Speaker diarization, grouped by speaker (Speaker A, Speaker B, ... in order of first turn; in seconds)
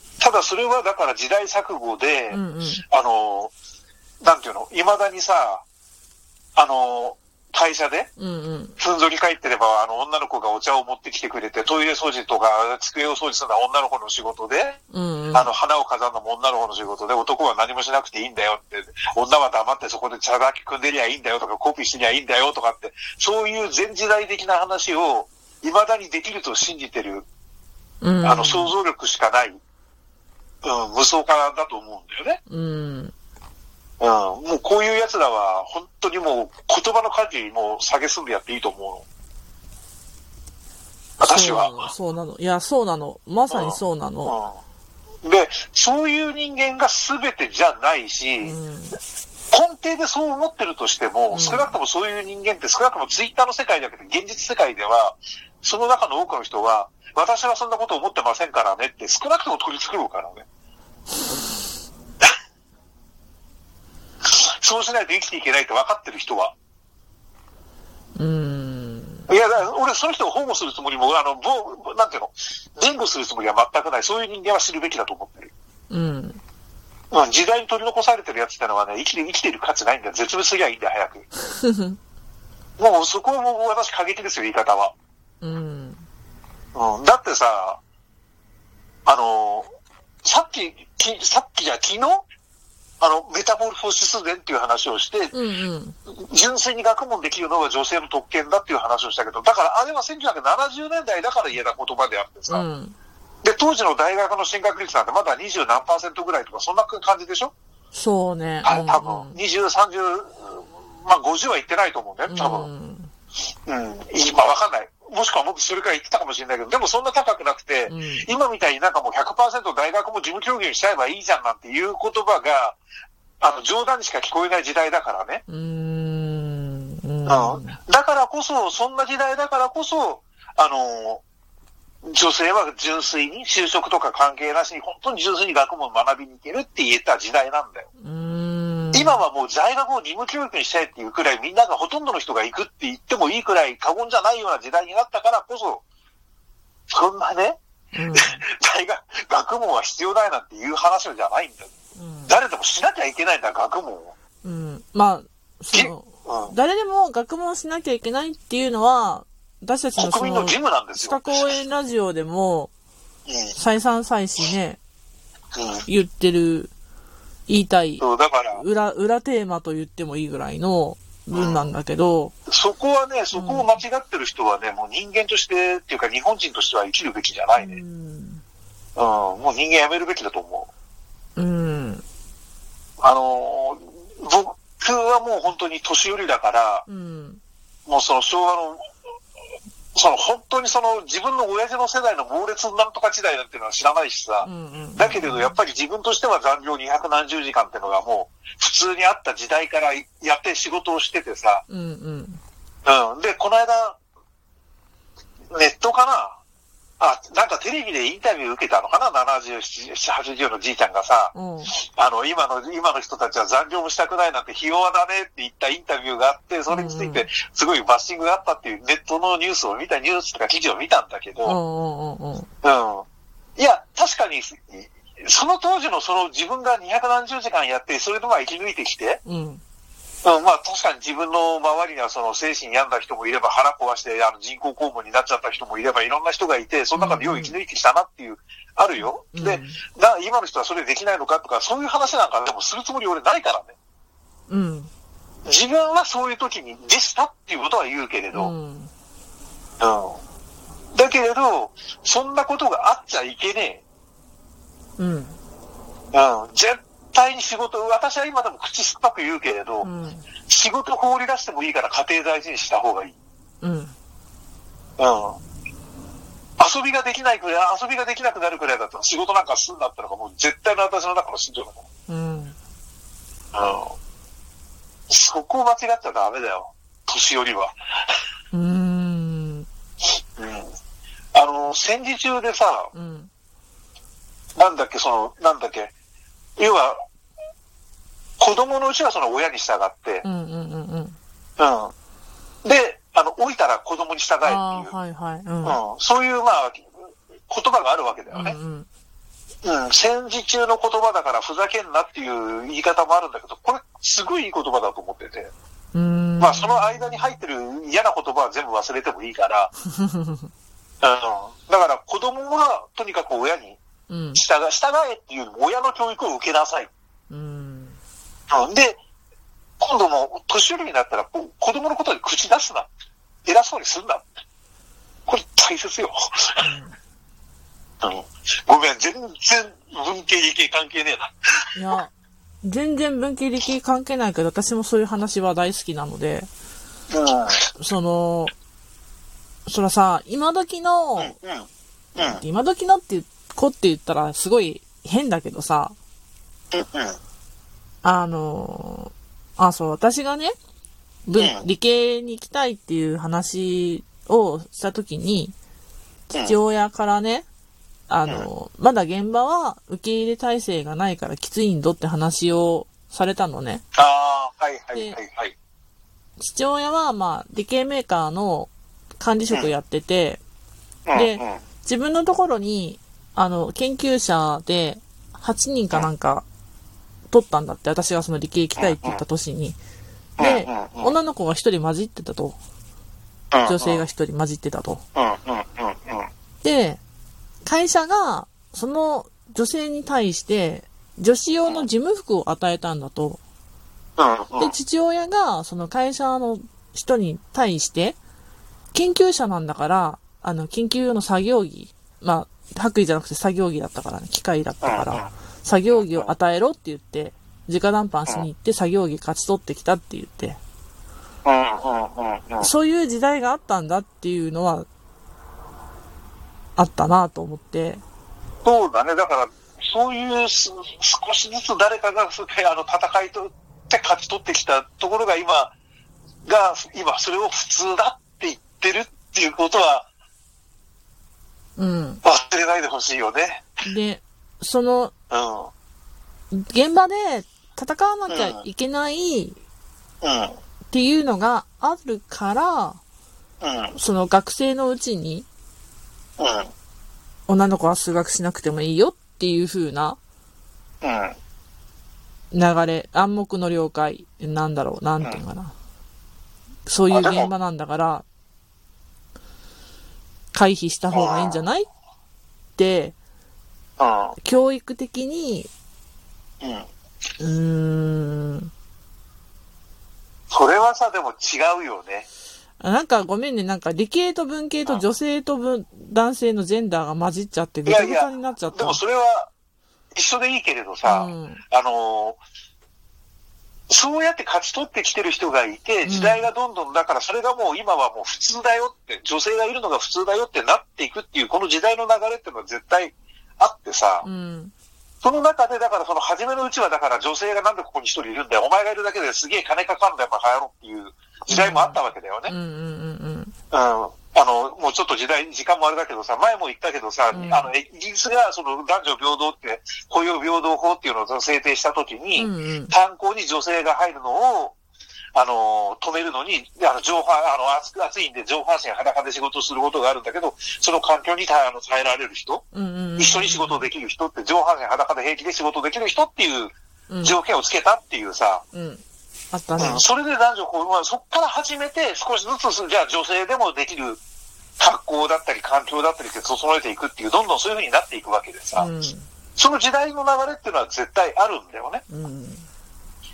Speaker A: 0.2-2.4, 2.9-3.5, 4.2-5.6, 6.6-8.1, 8.8-14.8, 15.3-27.3, 28.2-29.6, 30.6-32.4, 34.0-39.0, 41.2-41.9, 43.5-44.6, 45.2-48.6, 49.5-60.5, 64.3-66.5, 69.3-75.5, 77.1-81.3, 82.8-84.9, 86.8-87.8, 89.1-89.7, 90.2-92.2, 93.0-95.3, 96.1-102.7, 103.4-107.5, 108.6-112.7, 113.7-122.8, 123.4-125.4, 127.3-131.2, 132.1-137.9, 138.9-145.8, 146.9-147.6, 148.2-151.7, 152.3-154.1, 155.7-156.6, 160.0-161.4, 163.3-163.6, 165.5-165.8, 168.0-168.6, 171.3-171.7, 172.5-177.8, 179.0-180.7, 183.0-186.9, 187.9-188.8, 189.9-201.6, 202.8-204.0, 205.5-206.4, 207.0-221.6, 222.6-223.1, 223.6-229.2, 230.2-243.8, 245.4-248.5, 249.8-250.2, 250.9-253.8, 256.1-259.9, 260.5-263.1, 265.0-265.4, 266.6-271.8, 273.5-273.9, 275.1-277.7, 280.4-280.7, 281.3-282.9, 284.6-285.9, 286.6-287.0, 288.4-290.2, 291.6-291.9, 292.6-294.9, 295.6-296.9, 297.5-298.6, 299.6-305.5, 306.4-309.7, 311.0-313.8, 314.4-316.9, 318.5-319.0, 319.8-322.9, 323.4-324.3, 325.3-326.6, 328.0-331.3, 337.1-337.7, 341.2-342.4, 346.7-347.2, 351.4-351.7, 356.3-356.6, 363.9-365.5, 371.1-371.6, 378.8-379.2, 380.4-381.1, 383.5-384.0, 385.1-386.3, 394.2-394.7, 404.8-405.3, 405.9-406.3, 411.4-412.7, 418.6-425.7, 426.4-430.1, 432.2-433.7, 435.3-435.7, 438.3-438.6, 440.2-440.6, 443.6-444.0, 446.4-446.7, 451.0-451.4, 457.1-457.5, 461.1-461.6, 464.0-464.4, 466.6-466.9, 470.5-472.3, 477.9-479.5, 480.1-482.4, 483.9-494.3, 495.2-502.5, 503.7-514.8, 515.4-522.6, 523.2-528.6, 529.8-534.2, 534.8-538.9, 539.6-542.0
Speaker B: 2.3-2.8, 8.2-8.8, 14.9-15.5, 28.0-28.7, 32.5-33.1, 41.2-44.4, 48.4-49.0, 51.3-51.7, 68.2-69.3, 75.9-76.4, 81.6-82.0, 85.4-86.0, 95.3-96.0, 102.5-103.0, 107.9-109.4, 112.3-113.1, 117.9-118.3, 125.5-127.8, 138.0-139.2, 147.9-148.4, 152.0-152.4, 154.4-162.7, 163.5-164.8, 165.8-166.7, 167.5-172.3, 173.3-173.8, 177.6-178.4, 181.4-182.0, 186.9-187.4, 194.4-195.6, 201.7-202.4, 211.3-211.7, 216.7-217.3, 221.4-222.5, 229.2-229.6, 236.9-237.6, 239.0-239.8, 244.5-244.9, 248.3-248.9, 255.0-255.4, 259.8-260.3, 263.6-263.9, 272.1-272.6, 278.5-279.7, 282.9-283.3, 290.2-291.2, 294.4-295.8, 298.3-298.9, 305.9-307.4, 309.9-310.5, 314.1-314.4, 317.3-318.0, 326.6-327.0, 331.8-336.5, 337.8-338.5, 339.7-341.4, 342.2-345.9, 348.0-350.5, 351.3-355.6, 356.4-357.5, 358.1-363.8, 366.4-370.4, 371.1-376.5, 377.3-379.8, 380.4-382.6, 383.7-385.0, 386.6-387.0, 387.6-393.4, 394.6-398.2, 398.9-410.6, 412.6-414.9, 416.8-418.0, 431.8-432.2, 433.9-435.1, 436.5-439.6, 440.9-443.0, 444.0-445.5, 447.5-450.2, 452.5-455.8, 456.9-458.2, 460.5-461.9, 462.8-463.2, 464.4-465.7, 467.4-468.7, 472.8-479.0, 481.1-481.6, 486.1-486.5, 494.2-494.7, 501.5-503.5, 507.3-507.7, 512.4-513.0, 522.7-523.9, 527.1-527.4, 528.7-530.0, 538.8-539.3, 542.1-542.7